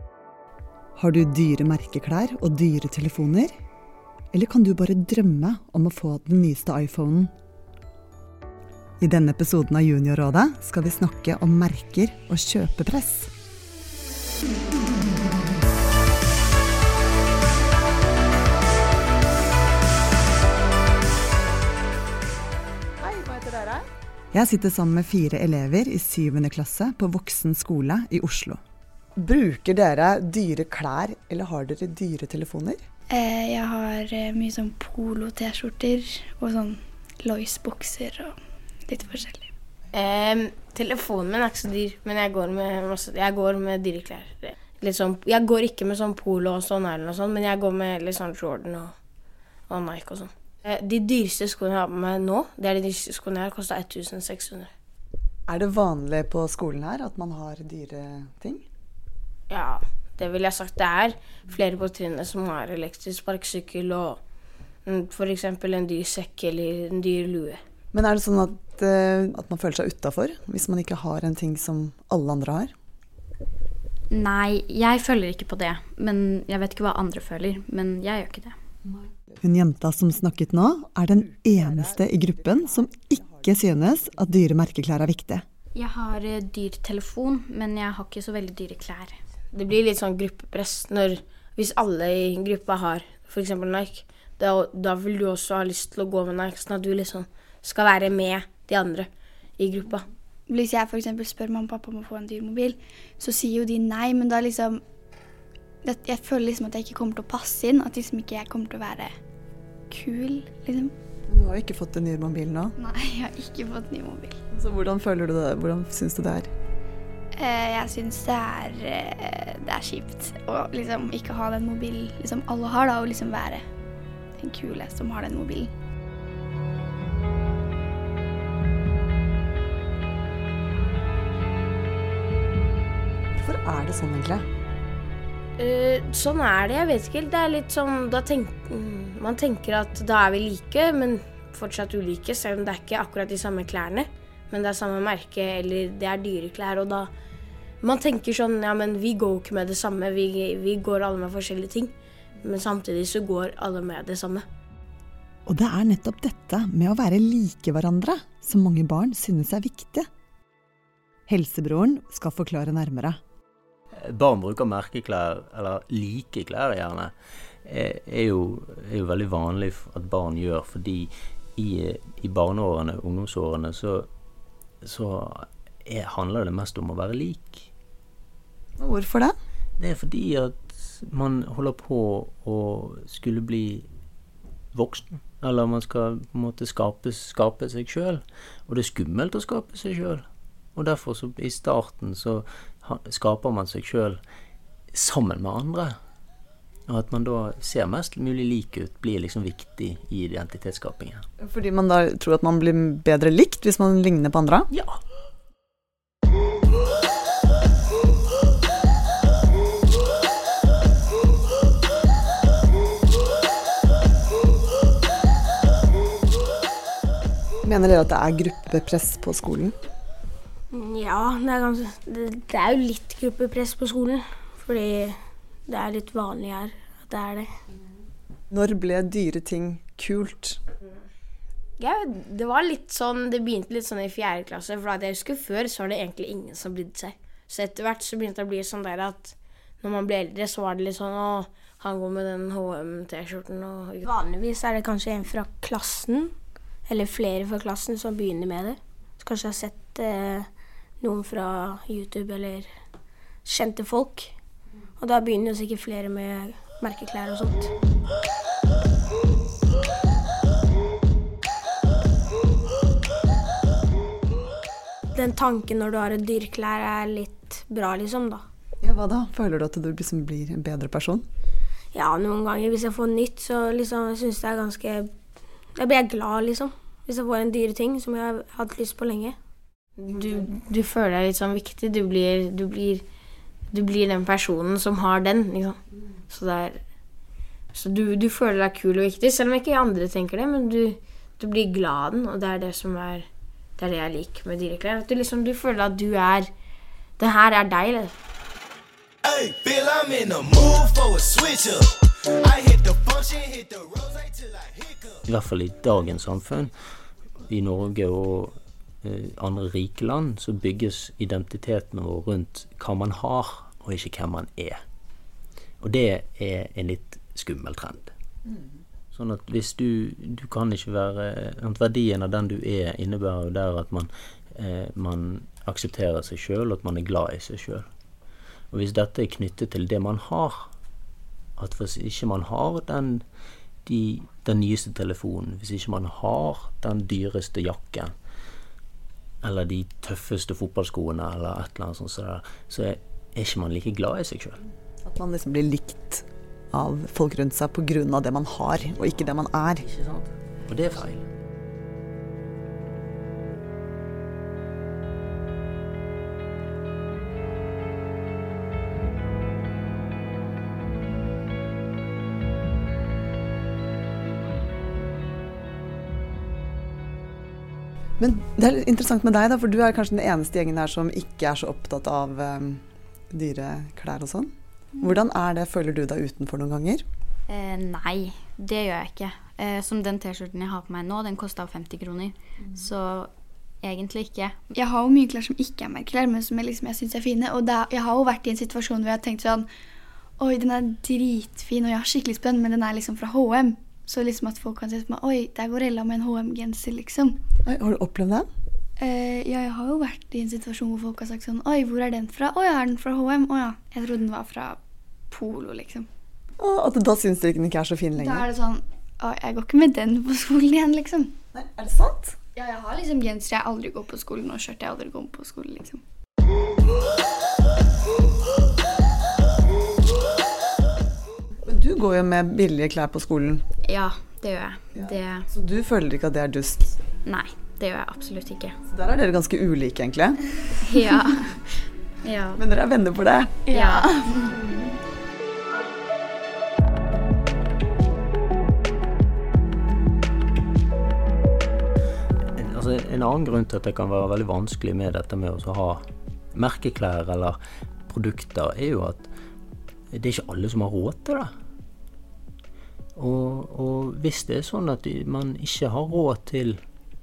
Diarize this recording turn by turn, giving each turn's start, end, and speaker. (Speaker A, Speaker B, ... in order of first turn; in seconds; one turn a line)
Speaker A: 0.9-3.5
Speaker A: 4.3-7.3
Speaker A: 9.0-13.3
Speaker A: 23.0-28.6
Speaker A: 29.2-32.8
Speaker B: 33.1-38.3
Speaker B: 38.9-39.5
Speaker C: 39.9-48.9
Speaker C: 49.7-54.7
Speaker A: 55.5-58.6
Speaker C: 59.5-64.2
Speaker C: 64.8-67.6
Speaker A: 67.9-72.7
Speaker D: 74.1-78.5
Speaker A: 79.4-85.4
Speaker D: 85.7-89.2
Speaker C: 89.5-100.0
Speaker B: 100.5-104.8
Speaker B: 105.8-109.1
Speaker B: 109.9-110.9
Speaker A: 111.3-112.7
Speaker B: 112.8-114.4
Speaker A: 114.5-116.5
Speaker B: 117.4-123.6
Speaker B: 124.4-125.7
Speaker A: 133.4-134.4
Speaker C: 135.6-147.1
Speaker C: 147.8-154.4
Speaker A: 155.4-160.1
Speaker A: 161.3-163.2
Speaker E: 163.9-167.1
Speaker E: 167.6-174.1
Speaker E: 174.8-177.7
Speaker A: 178.8-179.3
Speaker E: 179.8-183.9
Speaker E: 184.7-190.2
Speaker E: 190.7-194.2
Speaker E: 194.9-195.9
Speaker E: 196.9-201.2
Speaker A: 201.4-204.7
Speaker E: 204.7-205.0
Speaker A: 217.6-219.7
Speaker C: 220.7-227.5
Speaker A: 228.5-230.6
Speaker C: 231.8-246.3
Speaker C: 246.9-250.5
Speaker C: 251.0-252.7
Speaker C: 253.4-254.3
Speaker C: 255.0-257.7
Speaker C: 265.1-268.4
Speaker A: 268.8-271.2
Speaker C: 271.9-275.1
Speaker C: 275.7-279.4
Speaker C: 280.0-283.0
Speaker C: 283.7-286.8
Speaker C: 287.7-293.3
Speaker C: 293.8-296.5
Speaker C: 297.2-298.1
Speaker F: 299.2-305.1
Speaker E: 305.3-306.7
Speaker E: 307.5-314.8
Speaker E: 315.8-318.1
Speaker E: 319.1-327.9
Speaker E: 328.7-330.6
Speaker E: 331.6-333.2
Speaker E: 333.8-338.1
Speaker E: 339.4-344.6
Speaker A: 345.0-349.8
Speaker E: 349.8-351.2
Speaker A: 368.2-372.8
Speaker A: 373.3-377.0
Speaker D: 377.5-383.3
Speaker D: 383.8-384.6
Speaker B: 384.7-389.7
Speaker B: 390.4-397.4
Speaker A: 397.6-398.5
Speaker B: 399.0-404.8
Speaker B: 405.3-406.1
Speaker A: 406.6-408.4
Speaker B: 408.1-411.3
Speaker A: 411.5-412.3
Speaker B: 412.6-416.0
Speaker A: 421.6-423.6
Speaker D: 423.8-425.5
Speaker A: 424.9-427.0
Speaker D: 427.2-428.8
Speaker A: 428.9-430.4
Speaker D: 430.8-431.6
Speaker D: 432.2-432.6
Speaker A: 432.6-433.6
Speaker D: 433.7-434.1
Speaker B: 433.7-434.6
Speaker E: 442.5-446.0
Speaker E: 446.5-447.6
Speaker E: 448.1-449.3
Speaker E: 450.1-451.5
Speaker E: 453.1-456.8